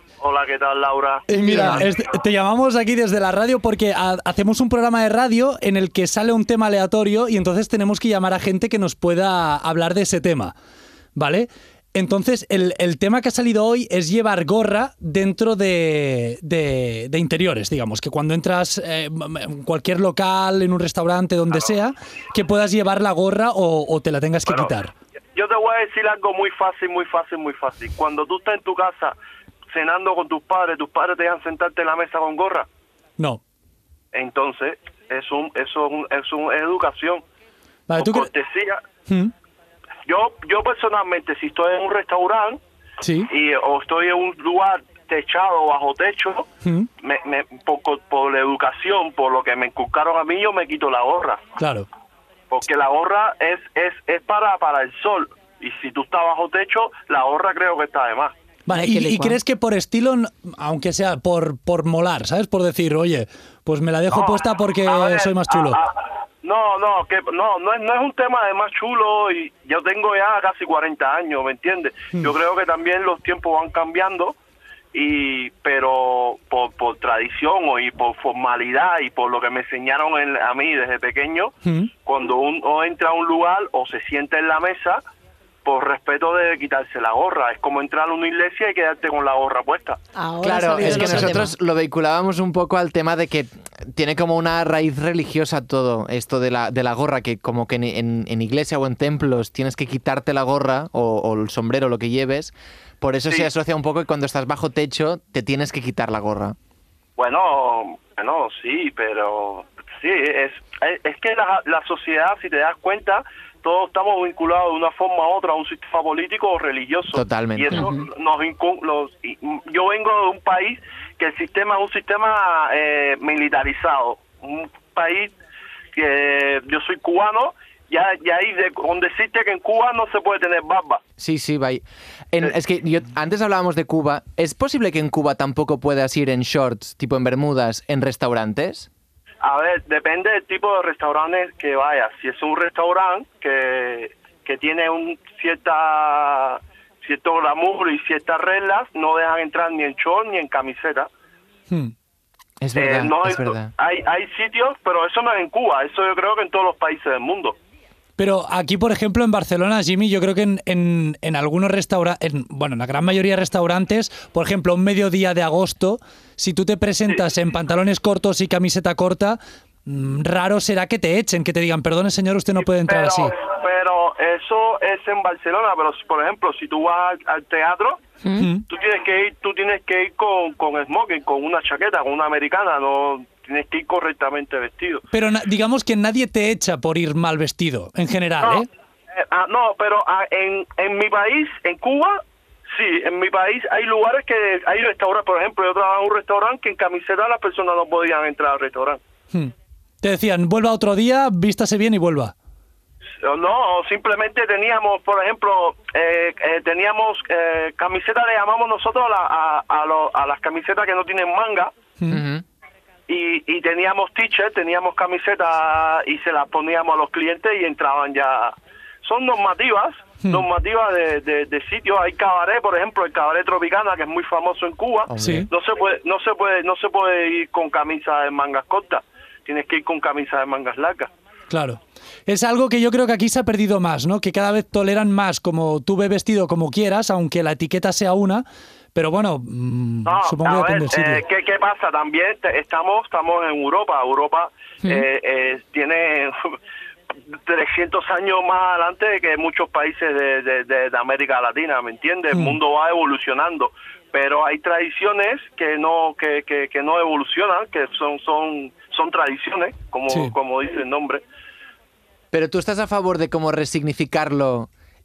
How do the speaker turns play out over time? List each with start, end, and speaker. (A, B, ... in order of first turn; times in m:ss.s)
0:00.2-0:01.8 A
0:01.3-0:10.5 B
0:11.1-0:24.9 B
0:24.4-0:24.7 A
0:25.3-0:29.1 A
0:29.7-0:32.7 A
0:34.1-0:37.2 A
0:37.9-0:38.3 B
0:38.0-0:38.8 A
0:39.1-0:39.3 B
0:40.0-0:42.6 A
0:43.0-0:43.3 B
0:43.3-0:46.5 A
0:46.6-0:46.9 B
0:47.0-0:51.5 A
0:51.6-0:51.9 B
0:52.5-0:58.3 A
0:58.7-1:05.8 B
0:58.7-0:59.4 C
1:04.1-1:14.4 A
1:14.9-1:25.0 A
1:21.6-1:21.9 B
1:25.6-1:30.0 A
1:30.2-1:31.5 C
1:30.4-1:46.6 D
1:47.2-2:05.3 A
1:57.1-1:57.9 D
1:57.7-1:58.0 C
2:05.9-2:11.0 A
2:11.2-2:18.9 D
2:19.4-2:31.1 A
2:32.6-2:33.7 D
2:32.7-2:37.6 A
2:38.2-2:53.3 B
2:52.6-2:58.0 A
2:58.2-2:58.5 C
2:58.4-2:58.6 B
2:58.7-3:05.0 A
3:05.1-3:08.7 B
3:08.4-3:19.0 A
3:19.3-3:22.3 B
3:23.2-3:31.7 A
3:32.1-3:32.4 D
3:33.1-3:51.1 A
3:45.1-3:45.5 D
3:45.2-3:45.5 B
3:51.5-4:01.2 B
4:00.0-4:06.4 A
4:07.4-4:21.2 A
4:12.3-4:12.6 B
4:20.1-4:20.3 B
4:22.3-4:24.7 D